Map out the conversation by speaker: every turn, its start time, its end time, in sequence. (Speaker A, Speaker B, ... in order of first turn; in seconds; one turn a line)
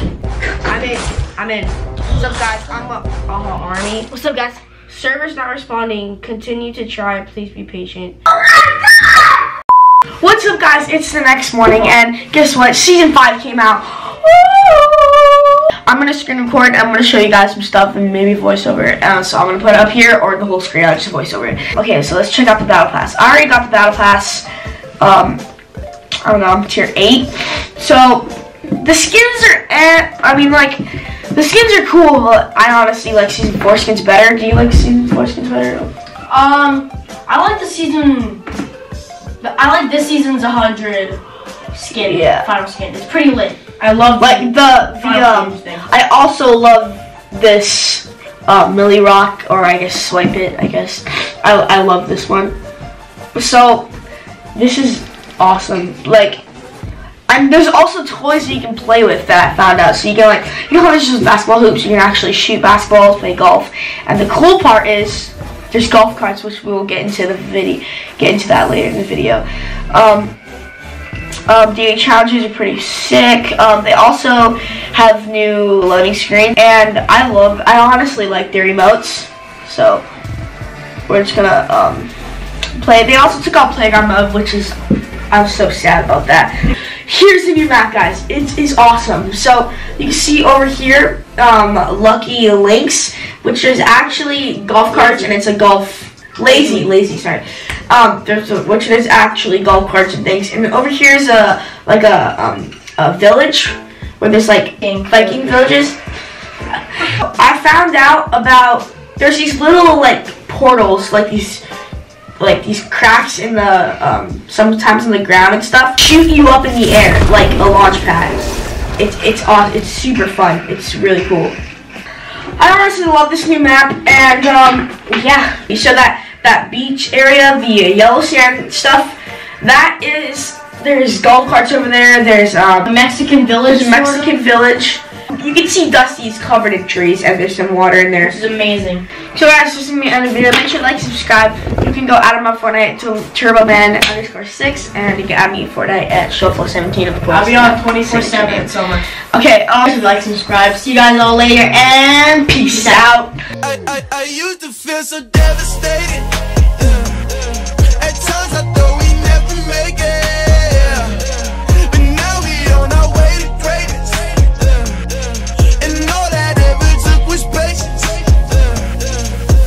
Speaker A: 0.7-9.3
Speaker A: 10.2-24.4
Speaker A: 25.0-25.4
Speaker A: 26.2-30.8
Speaker A: 31.3-35.9
Speaker B: 36.3-38.4
Speaker B: 39.4-41.2
Speaker B: 41.7-45.8
Speaker A: 42.1-42.5
Speaker A: 44.2-52.5
Speaker A: 53.4-53.9
Speaker A: 54.5-56.4
Speaker A: 57.3-70.4
Speaker A: 71.5-80.0
Speaker A: 81.1-82.1
Speaker A: 82.8-84.8
Speaker A: 85.3-86.5
Speaker A: 87.1-106.0
Speaker B: 94.9-95.3
Speaker B: 96.5-96.9
Speaker B: 104.8-105.4
Speaker A: 107.0-111.6
Speaker A: 112.4-121.6
Speaker A: 122.6-132.9
Speaker B: 132.8-134.4
Speaker A: 133.7-138.4
Speaker B: 138.2-139.1
Speaker A: 139.3-148.7
Speaker B: 147.3-149.1
Speaker A: 149.3-149.9
Speaker B: 149.9-153.3
Speaker A: 152.5-153.3
Speaker C: 153.6-169.3